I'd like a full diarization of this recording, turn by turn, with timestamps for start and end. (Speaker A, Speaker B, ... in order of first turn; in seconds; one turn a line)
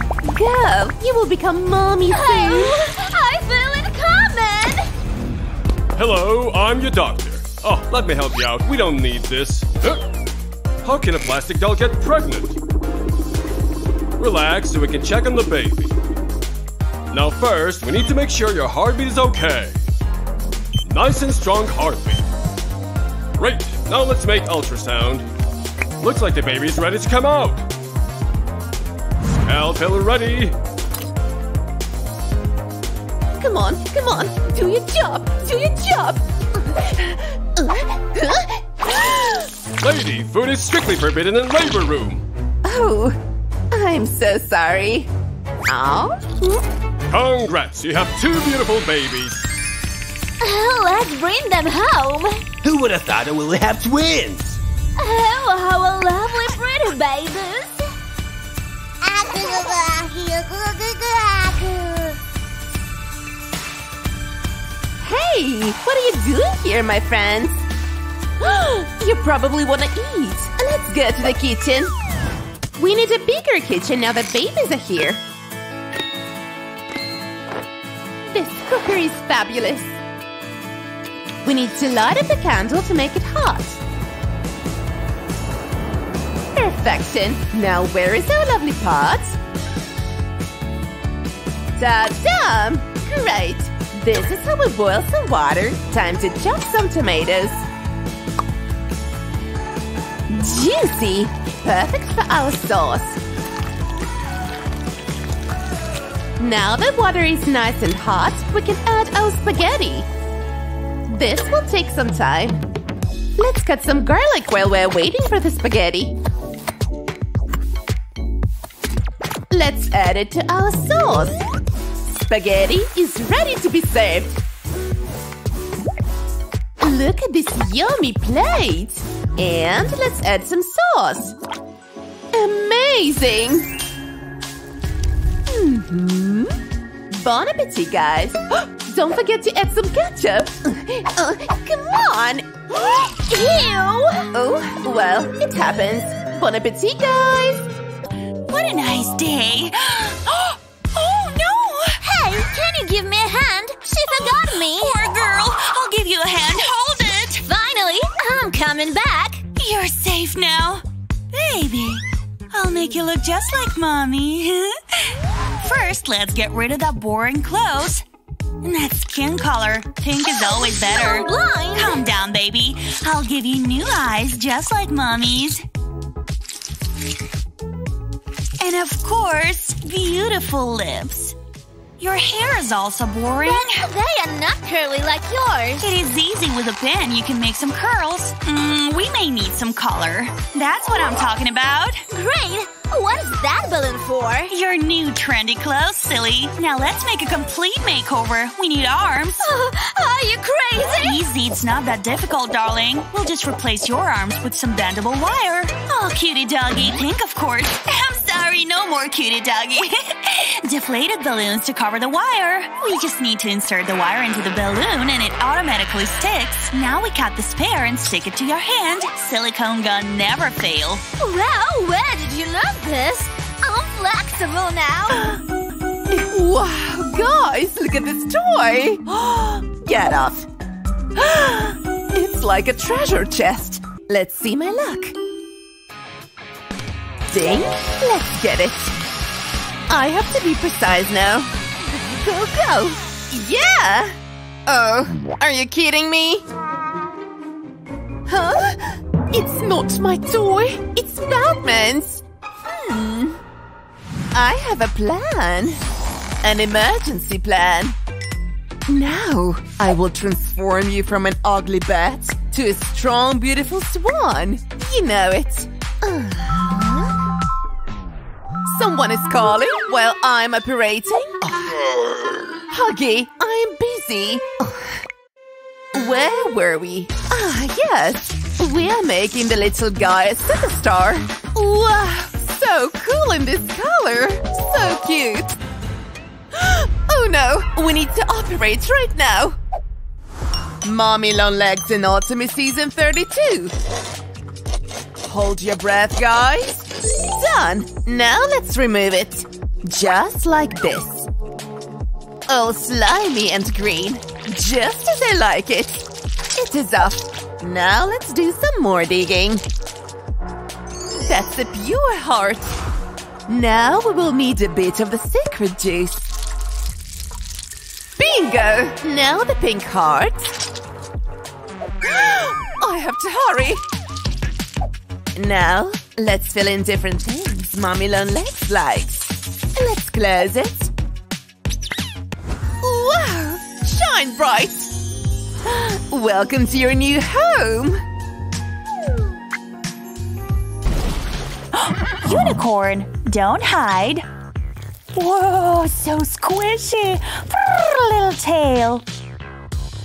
Speaker A: 0.3-2.9
Speaker B: 2.1-4.9
Speaker C: 5.9-10.0
Speaker C: 10.8-12.6
Speaker C: 14.2-15.9
Speaker C: 17.1-19.8
Speaker C: 20.9-22.2
Speaker C: 23.4-25.2
Speaker C: 26.0-27.6
Speaker C: 29.4-30.6
Speaker A: 33.4-39.5
Speaker C: 39.8-42.2
Speaker A: 42.6-43.2
Speaker A: 43.7-45.1
Speaker A: 45.6-46.6
Speaker C: 47.1-49.5
Speaker B: 50.4-52.4
Speaker D: 52.6-54.6
Speaker B: 55.0-57.9
Speaker B: 59.0-62.1
Speaker A: 65.0-67.7
Speaker A: 68.4-72.0
Speaker A: 72.8-75.2
Speaker A: 78.2-80.0
Speaker A: 81.4-83.8
Speaker A: 86.5-89.4
Speaker A: 91.8-97.7
Speaker A: 100.3-103.2
Speaker A: 106.4-110.1
Speaker A: 111.1-112.6
Speaker A: 113.4-116.2
Speaker A: 119.5-121.4
Speaker A: 122.1-124.4
Speaker A: 126.8-131.3
Speaker A: 132.3-133.7
Speaker A: 135.5-142.7
Speaker B: 143.3-144.3
Speaker A: 144.3-147.7
Speaker E: 148.5-152.0
Speaker B: 152.0-155.1
Speaker E: 154.1-157.5
Speaker B: 157.4-159.4
Speaker E: 159.6-168.0
Speaker E: 168.6-175.6
Speaker B: 170.4-172.0
Speaker E: 178.6-181.3
Speaker E: 182.0-183.8
Speaker B: 183.5-185.9
Speaker E: 185.8-192.0
Speaker B: 192.1-194.5
Speaker E: 194.5-199.5
Speaker B: 199.4-201.2
Speaker E: 200.8-221.0
Speaker B: 221.2-225.3
Speaker A: 226.1-230.5
Speaker A: 231.2-235.2
Speaker A: 237.3-239.0
Speaker A: 239.9-241.5
Speaker A: 242.0-246.5
Speaker A: 248.3-253.4
Speaker A: 254.3-255.8
Speaker A: 256.4-257.9
Speaker A: 258.9-267.2
Speaker A: 268.7-271.6
Speaker D: 271.6-272.4
Speaker A: 272.7-275.0
Speaker A: 275.9-285.6
Speaker A: 286.5-289.6
Speaker A: 290.8-293.8
Speaker A: 295.2-301.3
Speaker A: 302.5-309.6
Speaker A: 311.1-312.8
Speaker A: 313.5-316.3
Speaker A: 318.2-320.6
Speaker A: 322.0-323.8
Speaker A: 325.3-330.9
Speaker A: 332.8-334.9
Speaker A: 335.6-338.0
Speaker E: 341.7-344.2
Speaker E: 345.1-349.0